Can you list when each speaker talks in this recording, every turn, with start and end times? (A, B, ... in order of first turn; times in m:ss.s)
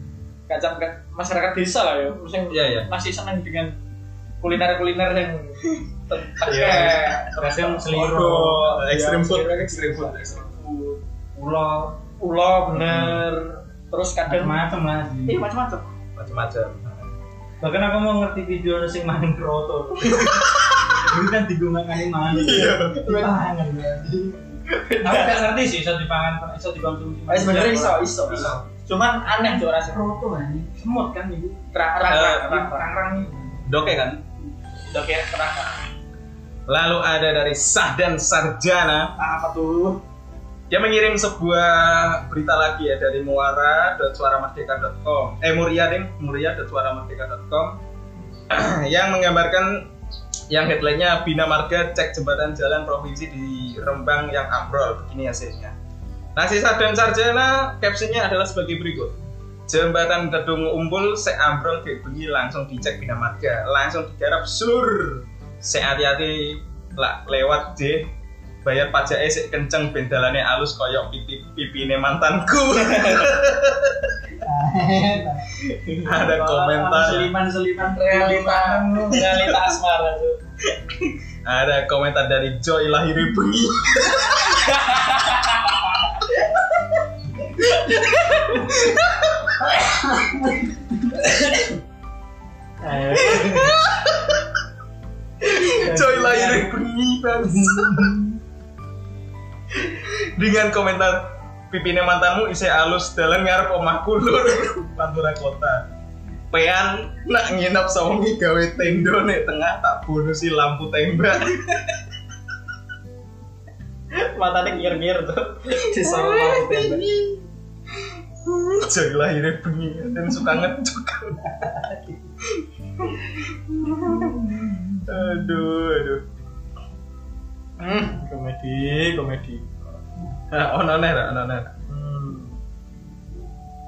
0:00.5-0:03.8 A
0:02.5-0:02.9 B
0:04.4-0:11.0 A
0:06.4-0:07.2 B
0:07.4-0:08.6 C
0:08.6-0:10.5 B
0:11.3-0:12.0 C
0:12.2-0:14.6 A
0:12.8-0:13.2 C
0:14.2-0:15.4 C
0:15.3-0:15.9 A
0:16.2-0:17.1 B
0:17.6-0:20.4 C
0:20.3-0:20.9 B
0:20.9-0:28.6 C
0:22.3-0:23.0 B
0:22.4-0:23.3 A
0:24.7-0:25.5 A
0:27.3-0:30.0 A
0:28.3-0:28.6 B
0:29.3-0:31.6 C
0:31.7-0:32.9 A
0:32.1-0:32.6 B
0:32.4-0:33.8 C
0:33.6-0:34.2 B
0:34.9-0:35.8 A
0:36.7-0:39.1 B
0:39.2-0:40.0 A
0:40.7-0:47.8 B
0:48.5-0:49.9 B
0:50.5-0:55.7 B
0:56.3-0:59.2 B
0:59.7-1:08.1 B
1:08.6-1:14.1 B
1:12.9-1:13.3 A
1:14.4-1:15.4 C
1:15.6-1:16.2 A
1:16.0-1:17.3 B
1:16.2-1:19.6 C
1:17.8-1:20.4 A
1:21.4-1:24.6 B
1:24.6-1:26.1 A
1:27.6-1:29.0 A
1:29.6-1:31.2 C
1:31.2-1:31.6 A
1:32.8-1:33.8 C
1:33.2-1:34.6 B
1:35.5-1:38.2 B
1:35.6-1:36.7 C
1:37.5-1:38.2 C
1:39.9-1:45.8 B
1:46.5-1:51.9 B
1:54.1-1:57.1 A
1:55.9-1:57.4 B
1:58.4-2:01.6 B
2:01.6-2:02.0 C
2:02.4-2:04.4 B
2:04.1-2:04.8 C
2:05.0-2:06.2 B
2:07.8-2:09.6 A
2:10.5-2:11.7 B
2:11.9-2:12.6 A